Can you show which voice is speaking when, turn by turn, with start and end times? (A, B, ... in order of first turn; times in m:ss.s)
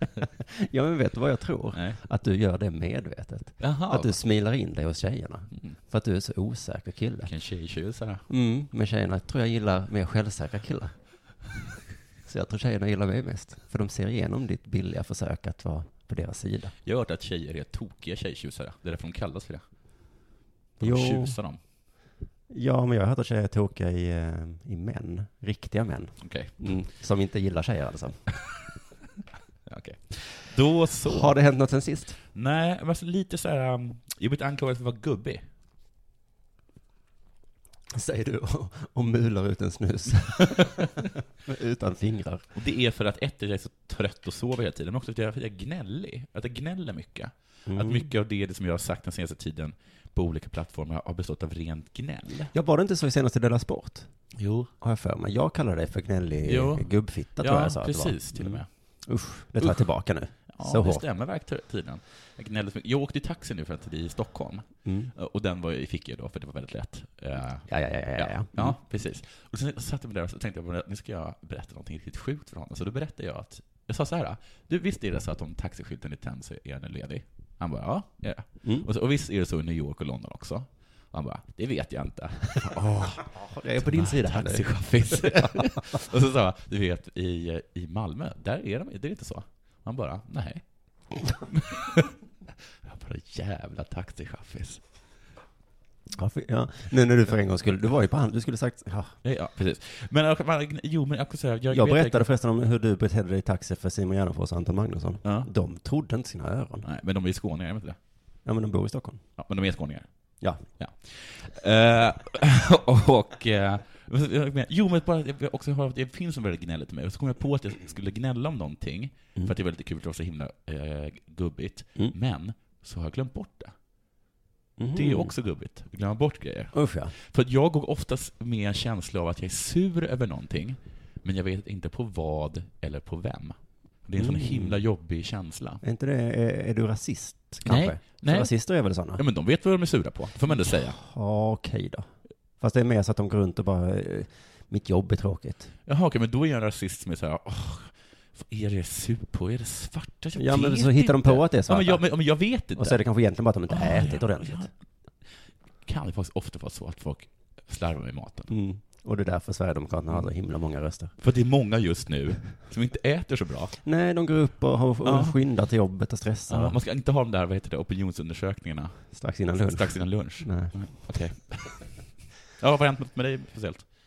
0:00.5-0:07.3 A
0:01.7-0:02.0 B
0:03.6-0:04.1 B
0:07.2-0:08.2 B
0:08.3-0:10.9 A
0:12.2-0:16.7 A
0:16.8-0:19.6 B
0:20.8-0:21.4 A
0:20.8-0:21.6 B
0:22.5-0:28.2 A
0:26.2-0:26.5 B
0:29.6-0:31.3 B
0:31.0-0:32.2 A
0:32.3-0:35.4 B
0:37.9-0:42.4 A
0:42.5-0:52.5 B
0:47.7-0:48.1 A
0:52.5-0:54.1 A
0:54.4-0:54.7 B
0:54.8-1:01.0 A
0:56.4-0:58.7 B
0:59.6-0:59.8 B
1:00.5-1:23.2 B
1:04.8-1:05.1 A
1:07.7-1:08.8 A
1:18.6-1:18.9 A
1:22.6-1:25.8 A
1:23.8-1:30.6 B
1:31.3-1:32.1 B
1:32.8-1:34.8 B
1:36.1-1:39.1 A
1:39.2-1:42.3 B
1:41.7-1:46.8 A
1:45.2-1:45.5 B
1:46.8-1:48.0 B
1:48.4-1:49.2 A
1:49.4-2:03.7 B
2:04.8-2:05.3 A
2:04.9-2:15.8 B
2:06.7-2:07.1 A
2:14.2-2:14.8 A
2:15.8-2:19.2 A
2:17.6-2:18.5 B
2:19.1-2:21.0 B
2:20.5-2:22.1 A
2:22.6-2:25.7 A
2:25.9-2:33.0 B
2:30.4-2:34.7 A
2:33.7-2:34.7 B
2:35.8-2:38.5 B
2:38.5-2:41.1 A
2:41.2-2:43.8 B
2:43.8-2:46.8 A
2:45.0-2:45.4 B
2:46.5-2:51.9 B
2:49.1-2:51.1 A
2:52.6-2:53.8 B